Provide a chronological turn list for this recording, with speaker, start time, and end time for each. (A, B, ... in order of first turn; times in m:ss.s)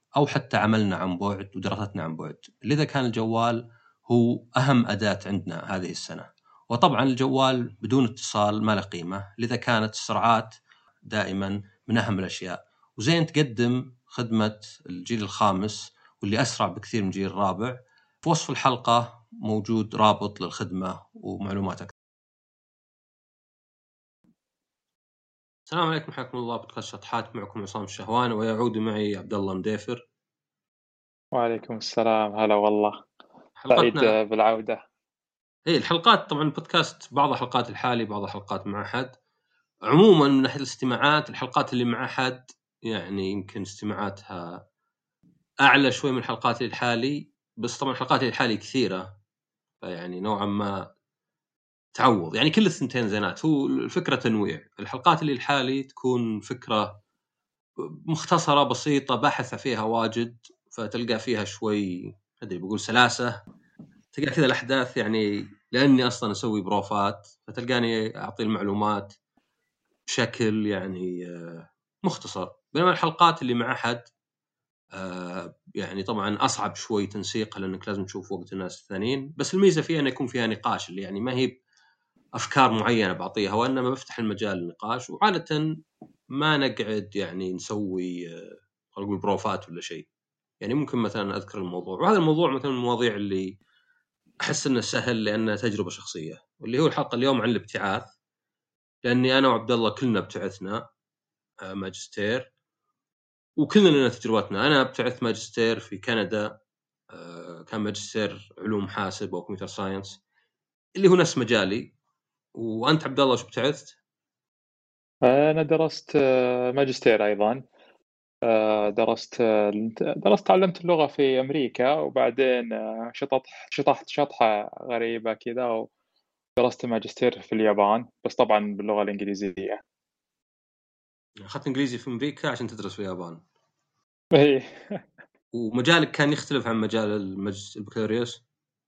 0:00.2-0:10.6 A
0:11.1-0:21.9 A
0:25.7-0:30.0 A
0:31.4-0:32.9 B
0:33.6-0:34.1 A
0:33.7-0:34.8 B
0:35.7-0:39.1 A
0:39.9-0:44.5 A
0:45.6-0:49.1 A
0:49.8-0:50.7 A
0:51.9-0:57.0 A
0:58.1-1:03.3 A
1:04.1-1:09.1 A
1:10.1-1:14.0 A
1:14.9-1:21.5 A
1:22.4-1:25.6 A
1:26.3-1:30.1 A
1:30.6-1:33.6 A
1:34.4-1:38.1 A
1:39.0-1:40.8 A
1:41.6-1:42.5 A
1:43.6-1:46.5 A
1:47.1-1:50.2 A
1:51.0-1:51.9 A
1:52.6-1:54.0 A
1:55.2-1:57.6 B
1:58.4-2:05.9 B
2:06.6-2:09.8 B
2:11.4-2:13.4 A
2:14.3-2:15.0 B
2:15.5-2:18.4 A